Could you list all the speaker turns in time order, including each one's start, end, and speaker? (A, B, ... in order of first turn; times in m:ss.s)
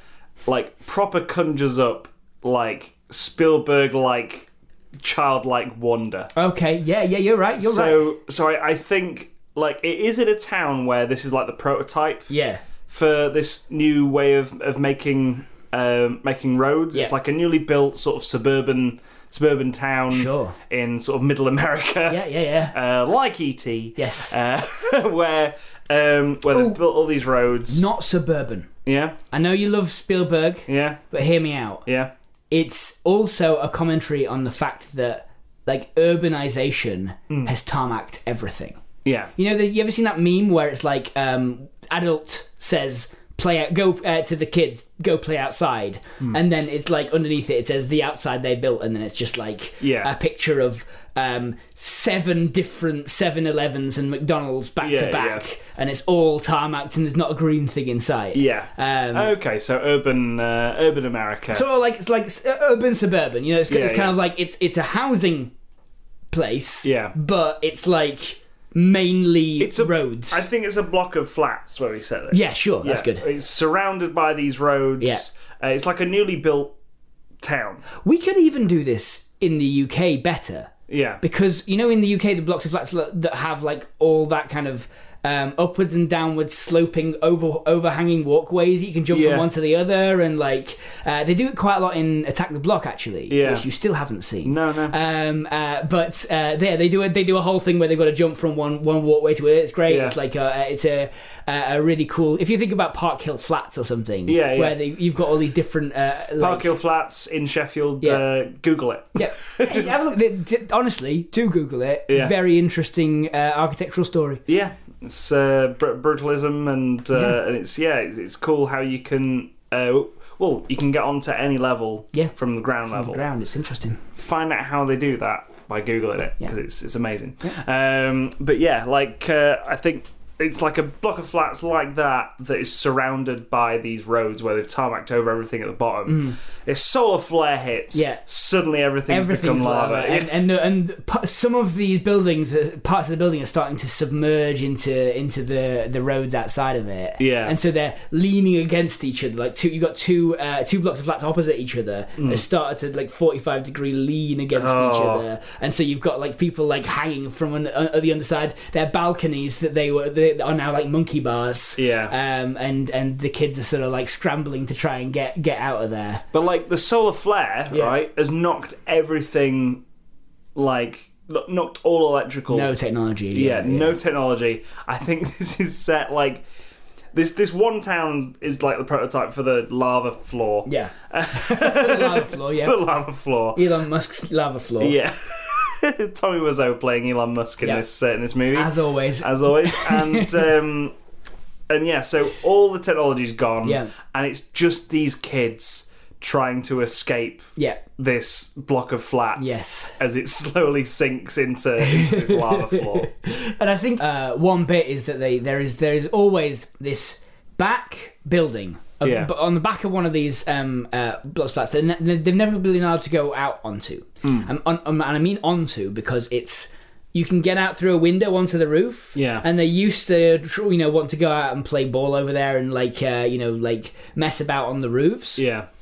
0:00.4-0:06.3 A
0:06.3-0:08.0 B
0:07.6-0:12.3 A
0:12.3-0:12.6 B
0:12.9-0:27.8 A
0:20.1-0:20.6 B
0:22.1-0:22.7 B
0:24.0-0:24.3 B
0:26.5-0:26.8 B
0:27.7-0:28.7 B
0:28.8-0:29.2 A
0:29.3-0:31.8 B
0:30.7-0:31.0 A
0:31.8-0:32.1 A
0:32.5-0:38.8 B
0:39.0-0:39.3 A
0:39.4-0:59.3 B
0:49.8-0:50.1 A
0:54.8-0:55.4 A
0:58.3-1:01.6 A
1:01.5-1:05.5 B
1:03.7-1:04.1 A
1:06.3-1:10.4 B
1:06.8-1:07.1 A
1:09.6-1:16.7 A
1:12.3-1:13.2 B
1:17.4-1:17.8 A
1:18.0-1:46.7 B
1:20.9-1:21.2 A
1:29.1-1:29.5 A
1:33.3-1:33.6 A
1:34.4-1:35.0 A
1:39.9-1:40.2 A
1:44.3-1:44.8 A
1:46.4-1:49.9 A
1:49.2-1:54.4 B
1:54.5-2:03.2 A
2:02.9-2:04.0 B
2:04.1-2:20.4 A
2:16.1-2:16.4 B
2:17.9-2:18.2 B
2:19.1-2:46.2 B
2:27.2-2:27.5 A
2:32.2-2:32.4 A
2:34.5-2:35.2 A
2:41.8-2:42.1 A
2:46.3-2:49.8 A
2:50.5-2:52.7 A
2:52.5-2:54.0 B
2:53.3-2:56.4 A
2:57.1-3:03.6 A
3:00.6-3:02.8 B
3:03.5-3:05.0 B
3:04.8-3:10.9 A
3:08.5-3:10.4 B
3:11.7-3:23.1 A
3:13.6-3:13.9 B
3:19.4-3:19.9 B
3:21.8-3:45.4 B
3:29.0-3:29.3 A
3:39.1-3:39.4 A
3:45.4-3:45.7 A